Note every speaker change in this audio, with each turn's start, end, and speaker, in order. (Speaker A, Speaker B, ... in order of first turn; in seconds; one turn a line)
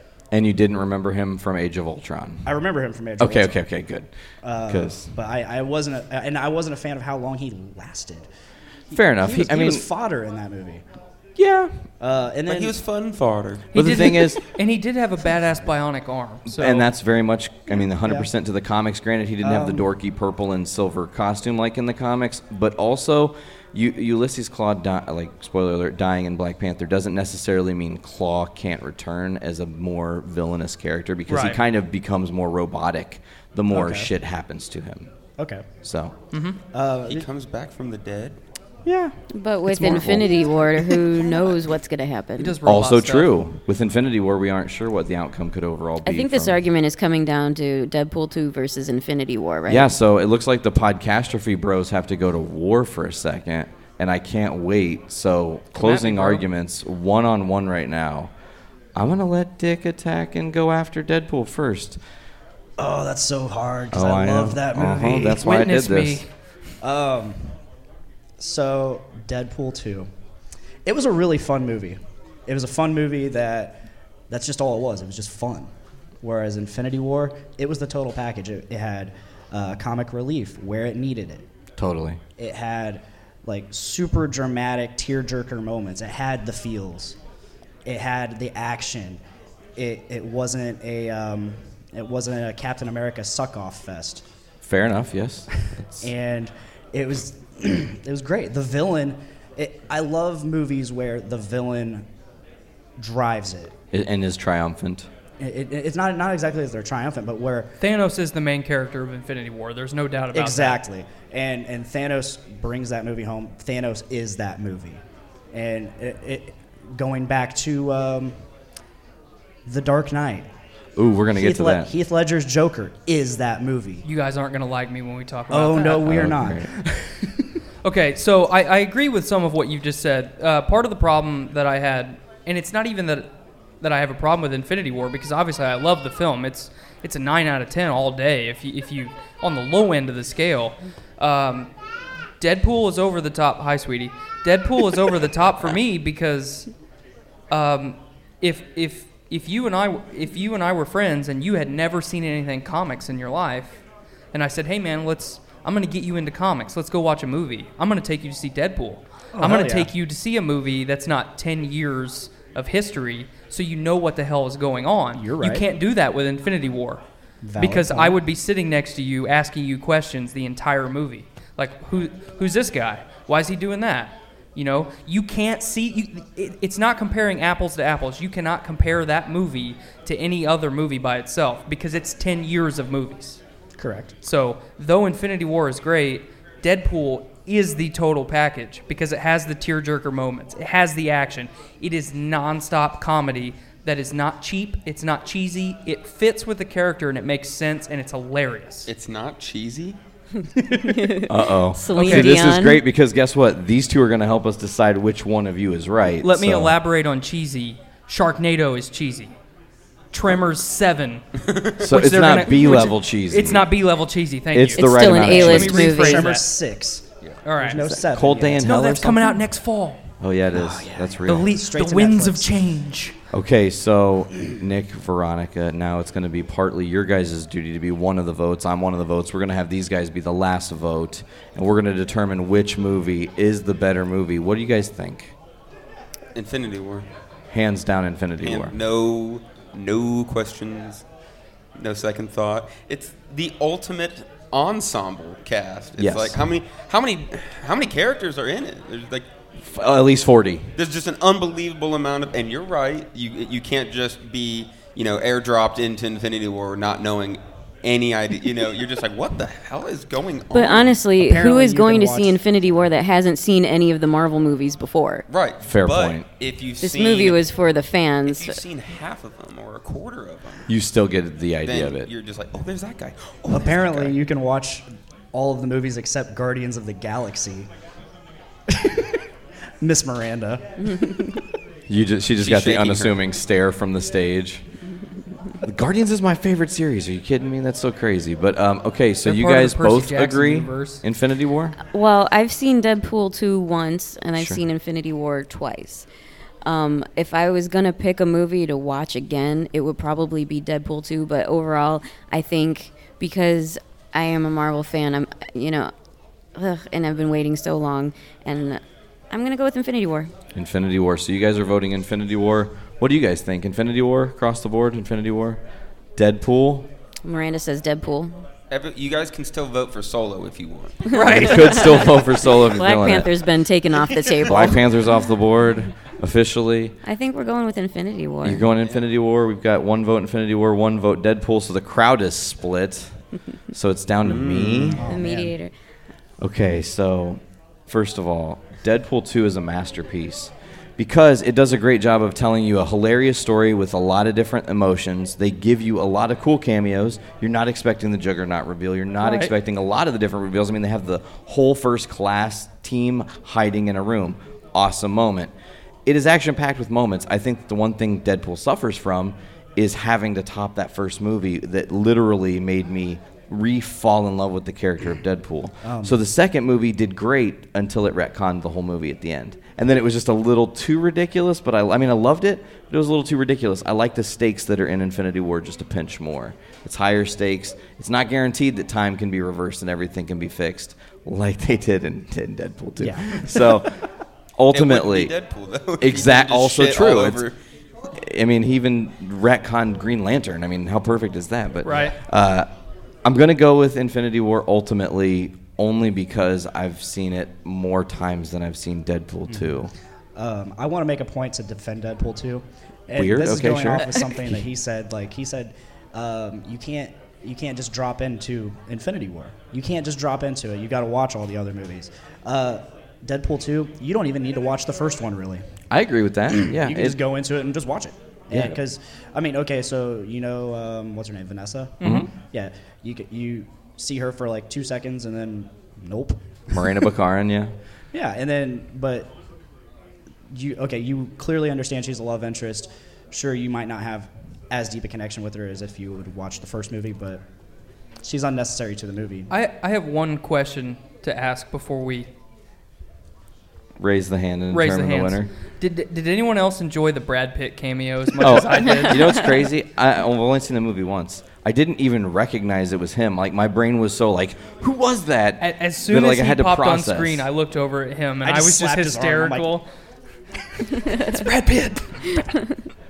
Speaker A: 0.3-2.6
Speaker B: 2.5-3.6
Speaker A: 3.2-4.1
Speaker B: 4.4-8.2
Speaker A: 4.6-5.1
Speaker B: 8.9-10.8
Speaker A: 8.9-9.8
Speaker A: 11.3-11.8
Speaker B: 12.0-12.8
Speaker C: 12.5-13.7
Speaker D: 13.7-16.9
Speaker A: 13.7-14.4
Speaker A: 16.4-35.1
Speaker B: 18.0-18.3
Speaker B: 19.4-19.9
Speaker D: 31.3-31.6
Speaker B: 33.7-34.1
Speaker B: 35.4-35.7
Speaker A: 35.8-36.1
Speaker D: 36.3-36.6
Speaker B: 36.7-37.2
Speaker C: 37.1-38.4
Speaker A: 38.8-40.9
Speaker E: 39.3-42.5
Speaker D: 42.4-43.3
Speaker A: 42.6-46.6
Speaker E: 46.0-49.9
Speaker A: 49.7-58.3
Speaker D: 55.7-56.4
Speaker A: 59.0-62.0
Speaker B: 62.8-65.5
Speaker A: 63.9-66.3
Speaker D: 65.3-66.3
Speaker B: 66.8-67.6
Speaker B: 68.4-70.1
Speaker B: 70.8-75.7
Speaker B: 76.2-81.5
Speaker A: 81.8-82.2
Speaker B: 82.4-87.2
Speaker B: 87.8-89.2
Speaker B: 89.8-94.2
Speaker A: 94.6-96.1
Speaker B: 96.0-102.0
Speaker B: 103.0-103.7
Speaker A: 103.9-105.1
Speaker B: 105.4-107.7
Speaker D: 107.8-110.8
Speaker B: 110.3-115.0
Speaker B: 115.5-118.4
Speaker B: 119.7-120.5
Speaker A: 121.0-121.9
Speaker B: 121.3-124.0
Speaker D: 124.0-126.2
Speaker B: 125.5-127.5
Speaker A: 126.0-126.7
Speaker D: 127.8-141.7
Speaker D: 142.4-146.7
Speaker D: 147.5-153.8
Speaker D: 154.3-167.0
Speaker B: 159.3-159.9
Speaker B: 165.2-165.6
Speaker B: 167.4-168.2
Speaker D: 167.6-183.4
Speaker B: 183.8-184.2
Speaker D: 184.2-198.9
Speaker C: 198.9-200.0
Speaker E: 200.8-202.8
Speaker A: 201.3-206.8
Speaker D: 201.9-202.4
Speaker D: 206.2-209.3
Speaker D: 210.1-211.2
Speaker C: 211.4-211.8
Speaker A: 211.8-213.7
Speaker D: 211.8-216.4
Speaker A: 214.5-215.9
Speaker E: 214.8-216.3
Speaker B: 215.3-217.0
Speaker D: 217.4-217.9
Speaker B: 217.6-218.8
Speaker A: 217.8-219.2
Speaker D: 218.6-220.0
Speaker A: 220.2-221.5
Speaker B: 220.5-222.8
Speaker D: 221.2-223.1
Speaker A: 223.3-235.3
Speaker C: 236.3-237.1
Speaker A: 237.5-238.7
Speaker C: 238.4-241.0
Speaker C: 241.7-249.3
Speaker A: 246.0-246.4
Speaker A: 249.6-250.7
Speaker C: 250.7-261.0
Speaker E: 260.5-265.2
Speaker B: 261.2-262.4
Speaker C: 265.3-267.4
Speaker A: 265.6-266.2
Speaker E: 266.8-268.6
Speaker C: 268.2-270.7
Speaker A: 270.7-272.1
Speaker C: 271.6-274.2
Speaker B: 273.5-277.7
Speaker B: 278.7-279.2
Speaker B: 279.8-281.4
Speaker A: 281.9-284.6
Speaker C: 282.4-283.2
Speaker A: 285.6-291.8
Speaker D: 289.2-291.0
Speaker E: 291.9-296.1
Speaker E: 296.6-305.9
Speaker E: 306.5-310.3
Speaker A: 310.5-315.6
Speaker A: 316.1-316.9
Speaker E: 317.2-318.4
Speaker C: 318.7-321.1
Speaker D: 321.1-322.0
Speaker E: 321.1-324.8
Speaker A: 321.1-323.3
Speaker A: 324.4-326.9
Speaker E: 327.0-328.7
Speaker A: 328.4-333.1
Speaker A: 333.7-335.0
Speaker C: 334.2-335.0
Speaker B: 334.9-335.5
Speaker E: 335.0-335.7
Speaker A: 336.4-355.5
Speaker D: 349.2-349.5
Speaker A: 356.1-384.0
Speaker B: 365.8-366.2
Speaker B: 383.0-383.8
Speaker A: 384.6-385.3
Speaker C: 384.7-387.6
Speaker A: 386.0-387.4
Speaker A: 388.1-392.7
Speaker D: 391.8-392.2
Speaker A: 393.2-399.9
Speaker B: 400.4-415.6
Speaker A: 403.1-404.6
Speaker A: 415.9-417.2
Speaker B: 416.6-426.8
Speaker A: 418.5-418.8
Speaker D: 422.0-422.3
Speaker A: 422.0-422.3
Speaker A: 426.7-427.7
Speaker B: 428.1-429.3
Speaker B: 430.5-437.4
Speaker B: 438.2-439.5
Speaker D: 439.5-442.3
Speaker A: 444.0-445.5
Speaker D: 444.7-449.4
Speaker A: 448.4-457.4
Speaker D: 455.6-459.9
Speaker B: 458.4-459.7
Speaker D: 460.9-462.7